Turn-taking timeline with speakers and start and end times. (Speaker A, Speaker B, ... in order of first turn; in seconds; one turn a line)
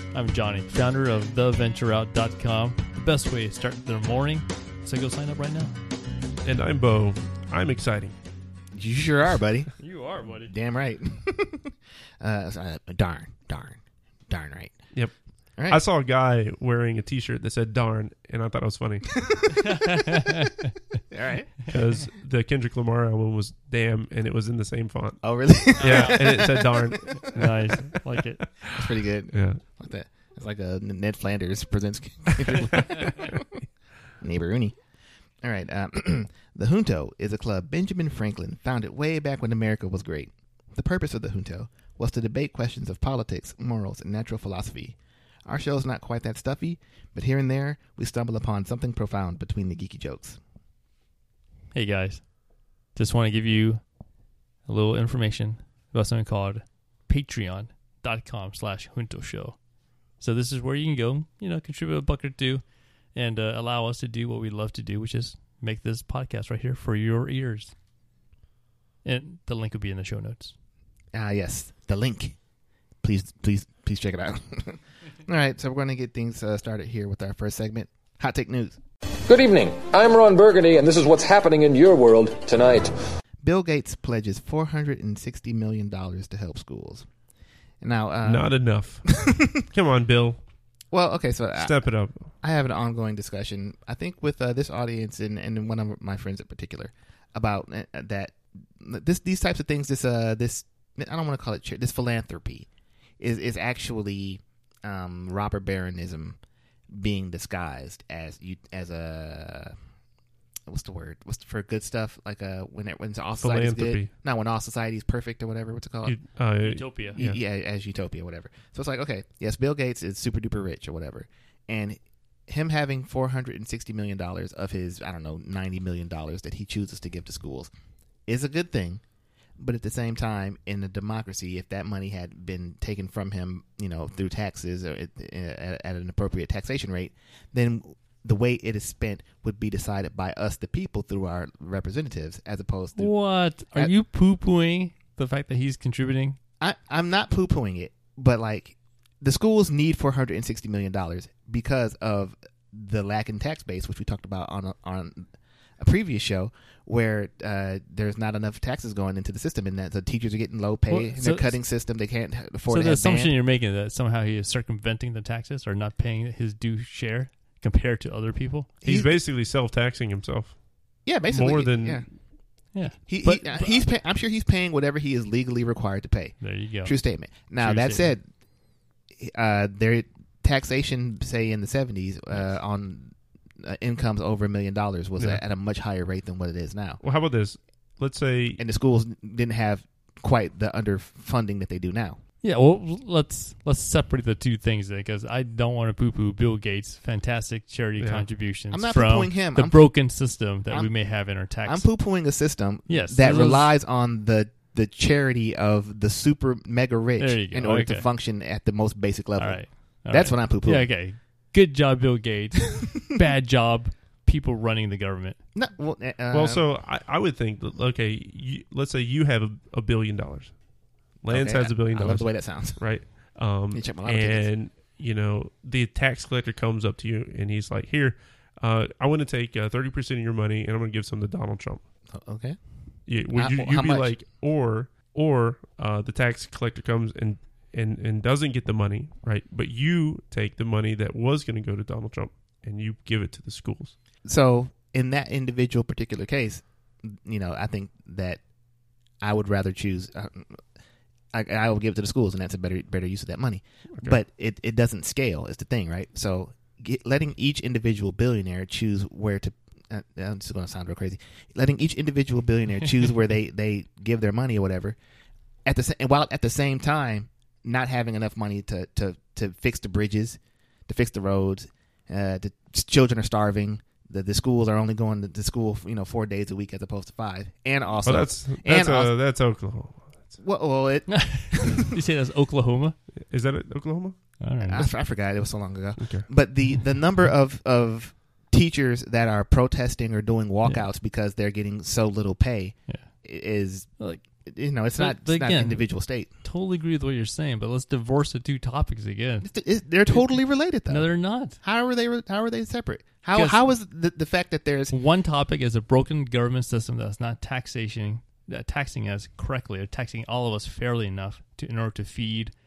Speaker A: 0.1-5.8
Speaker B: 6.4-8.2
Speaker C: 8.7-9.8
Speaker A: 9.8-10.5
Speaker C: 10.5-14.9
Speaker B: 15.7-19.2
Speaker C: 19.2-19.6
Speaker A: 19.7-20.7
Speaker C: 21.1-21.8
Speaker B: 21.7-28.0
Speaker C: 25.2-27.3
Speaker A: 25.8-26.2
Speaker A: 27.3-28.4
Speaker B: 28.6-29.6
Speaker C: 28.7-33.6
Speaker B: 32.5-33.3
Speaker C: 34.2-34.8
Speaker C: 35.4-50.4
Speaker A: 51.7-52.3
Speaker A: 52.9-53.8
Speaker A: 54.7-59.6
Speaker A: 60.2-67.7
Speaker A: 69.0-70.5
Speaker C: 71.1-72.4
Speaker C: 73.0-78.8
Speaker D: 79.3-82.9
Speaker C: 83.4-87.1
Speaker C: 87.8-88.5
Speaker B: 88.2-90.4
Speaker C: 89.1-89.6
Speaker C: 90.9-91.9
Speaker B: 91.6-92.3
Speaker C: 92.4-102.7
Speaker C: 103.2-106.4
Speaker C: 106.9-109.8
Speaker C: 110.7-116.2
Speaker B: 113.4-114.1
Speaker B: 116.0-117.4
Speaker A: 116.6-117.2
Speaker C: 117.2-127.7
Speaker C: 128.3-129.0
Speaker C: 129.6-143.1
Speaker A: 143.0-146.4
Speaker C: 146.6-163.4
Speaker A: 160.9-161.6
Speaker A: 162.7-168.7
Speaker B: 168.8-172.1
Speaker C: 168.8-169.1
Speaker C: 171.1-172.1
Speaker A: 172.7-173.8
Speaker C: 173.0-178.2
Speaker A: 176.4-178.1
Speaker C: 179.2-187.0
Speaker B: 187.0-188.6
Speaker C: 188.6-192.2
Speaker A: 192.4-201.9
Speaker B: 198.0-198.3
Speaker C: 198.7-211.0
Speaker A: 202.9-203.8
Speaker A: 207.2-208.1
Speaker A: 209.4-215.4
Speaker C: 215.6-216.7
Speaker B: 216.3-220.6
Speaker B: 221.2-231.8
Speaker C: 221.3-224.5
Speaker C: 232.1-232.6
Speaker B: 233.1-243.9
Speaker C: 233.3-234.1
Speaker C: 244.2-248.4
Speaker C: 249.2-250.6
Speaker C: 251.3-265.0
Speaker C: 265.6-279.1
Speaker B: 278.0-280.3
Speaker C: 280.4-281.9
Speaker A: 281.1-283.0
Speaker B: 283.3-284.3
Speaker A: 284.4-284.9
Speaker C: 284.6-296.3
Speaker B: 286.0-286.2
Speaker A: 294.0-294.2
Speaker A: 295.0-295.9
Speaker A: 296.4-299.5
Speaker C: 299.4-304.9
Speaker A: 300.1-300.4
Speaker A: 300.9-301.6
Speaker A: 303.3-303.6
Speaker A: 304.9-312.5